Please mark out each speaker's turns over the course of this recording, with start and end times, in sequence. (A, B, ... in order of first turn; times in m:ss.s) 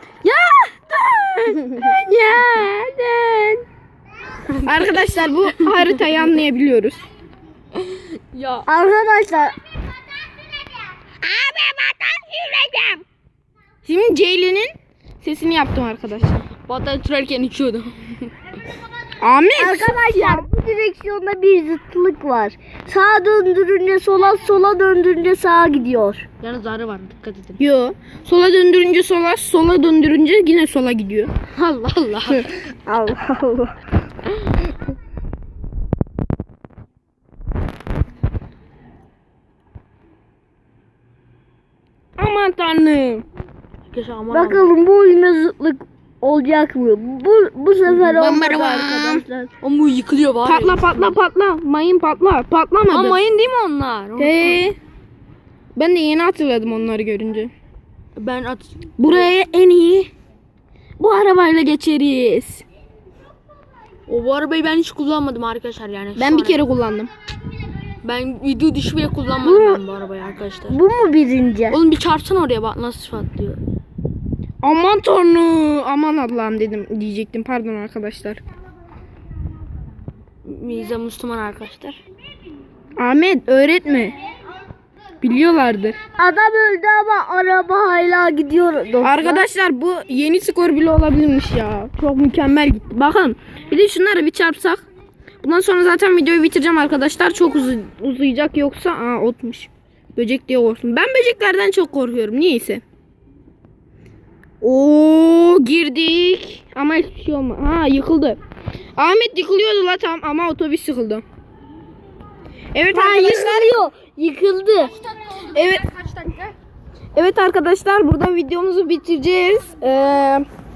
0:00.2-0:03.6 A
0:01.7-0:01.9 B
0:04.5-0:05.8 B
0:04.6-0:07.0 A
0:07.8-0:08.6 B
0:08.7-0:09.6 C
0:11.2-0:11.7 A
0:11.7-0:13.0 C
0:13.8-0:16.4 A
0:16.6-0:18.3 B
0:19.2-0:20.5 A
0:19.6-0:26.3 C
0:26.4-0:27.6 B
0:27.6-0:31.3 A
0:31.5-0:32.6 B
0:32.8-0:33.8 C
0:42.2-0:43.2 A
0:43.9-0:44.7 B
0:44.3-0:49.5 C
0:47.9-0:49.2 A
0:49.6-0:51.2 B
0:50.4-0:53.2 A
0:52.9-0:54.6 B
0:54.2-0:54.8 A
0:55.8-0:57.5 A
0:58.2-0:58.9 B
0:59.0-1:00.1 A
1:01.0-1:02.6 A
1:04.1-1:06.6 B
1:06.2-1:07.1 A
1:08.0-1:10.8 B
1:09.4-1:09.8 C
1:10.7-1:11.8 C
1:11.7-1:13.6 B
1:14.6-1:18.4 A
1:20.4-1:22.0 B
1:23.0-1:24.2 A
1:25.2-1:26.0 A
1:26.2-1:29.4 C
1:29.0-1:34.8 A
1:35.4-1:42.8 A
1:44.6-1:48.4 A
1:49.0-1:51.2 A
1:52.7-1:53.8 A
1:52.9-1:54.9 C
1:55.1-1:56.5 B
1:55.5-1:55.9 A
1:57.1-2:00.4 A